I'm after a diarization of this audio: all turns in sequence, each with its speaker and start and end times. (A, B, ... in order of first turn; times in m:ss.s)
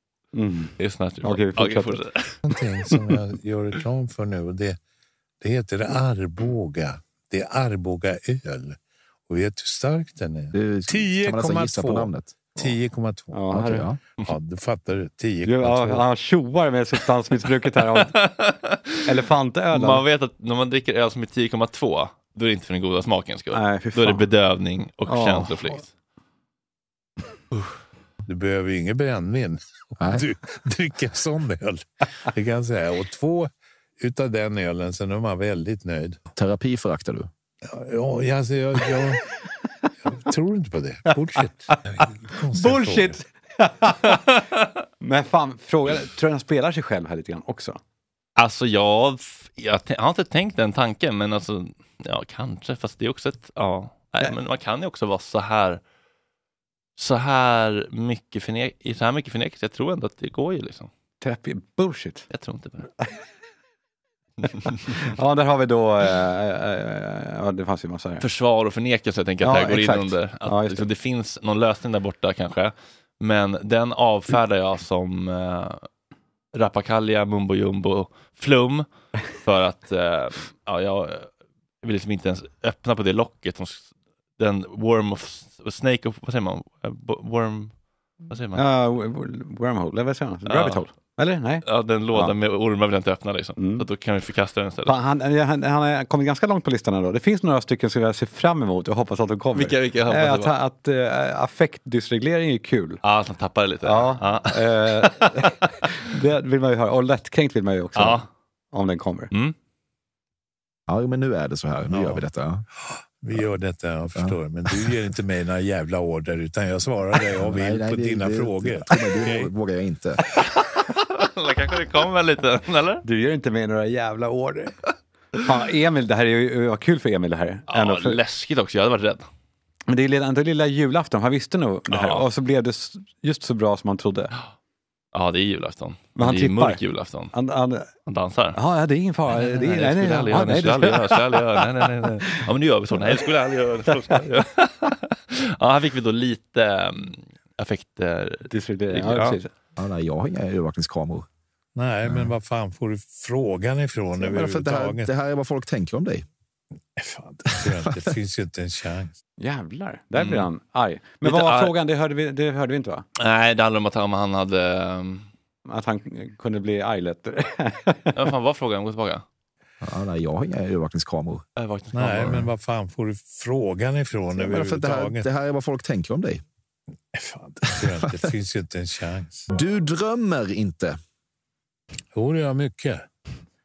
0:00.3-0:02.0 A
0:00.8-0:02.4 B
0:02.4-0:04.8 C
0:05.4-0:13.6 C
0:10.5-0:12.4 D
0:13.3-0:13.8 A
0:13.5-0:14.0 D
0:14.2-0:16.0 C
0:15.4-0:18.1 A
0:17.9-0:19.0 B
0:19.0-0:20.0 A
0:19.7-0:25.9 B
0:23.5-0:24.2 A
0:25.0-0:25.8 A
0:28.2-0:36.2 C
0:36.4-0:37.3 D
0:37.7-0:39.2 C
0:40.1-0:43.2 C
0:41.7-0:44.2 A
0:45.0-0:47.8 A
0:48.4-0:55.8 B
0:57.0-1:00.9 B
1:01.2-1:02.3 A
1:02.3-1:02.9 B
1:04.9-1:08.2 A
1:08.2-1:15.8 B
1:09.4-1:10.8 A
1:16.5-1:21.3 B
1:21.8-1:27.8 B
1:28.3-1:28.6 B
1:28.5-1:32.3 A
1:30.4-1:30.8 B
1:31.6-1:34.9 B
1:33.6-1:33.9 A
1:34.8-1:43.0 A
1:39.5-1:40.5 B
1:43.0-1:45.4 B
1:43.8-1:49.3 A
1:48.0-1:48.3 B
1:50.9-1:52.6 D
1:51.8-1:52.2 C
1:53.2-1:59.5 C
1:57.4-2:00.2 D
2:00.7-2:03.0 B
2:03.0-2:04.8 A
2:05.4-2:08.2 A
2:07.7-2:09.3 B
2:09.9-2:14.3 A
2:11.9-2:12.2 B
2:15.1-2:17.3 B
2:16.2-2:16.8 A
2:17.3-2:17.9 A
2:18.0-2:18.6 B
2:18.5-2:21.8 A
2:19.3-2:29.4 B
2:28.5-2:29.5 A
2:29.8-2:31.2 D
2:31.8-2:35.1 C
2:34.2-2:36.2 D
2:37.0-2:39.1 C
2:39.4-2:43.0 A
2:40.2-2:40.5 B
2:41.2-2:41.7 B
2:43.2-2:45.3 B
2:45.6-2:48.2 A
2:48.1-2:49.2 B
2:49.8-2:51.4 D
2:51.6-2:52.4 B
2:51.9-2:55.3 C
2:54.4-2:56.4 D
2:57.1-2:59.5 C
2:59.5-3:01.0 D
3:02.1-3:03.0 C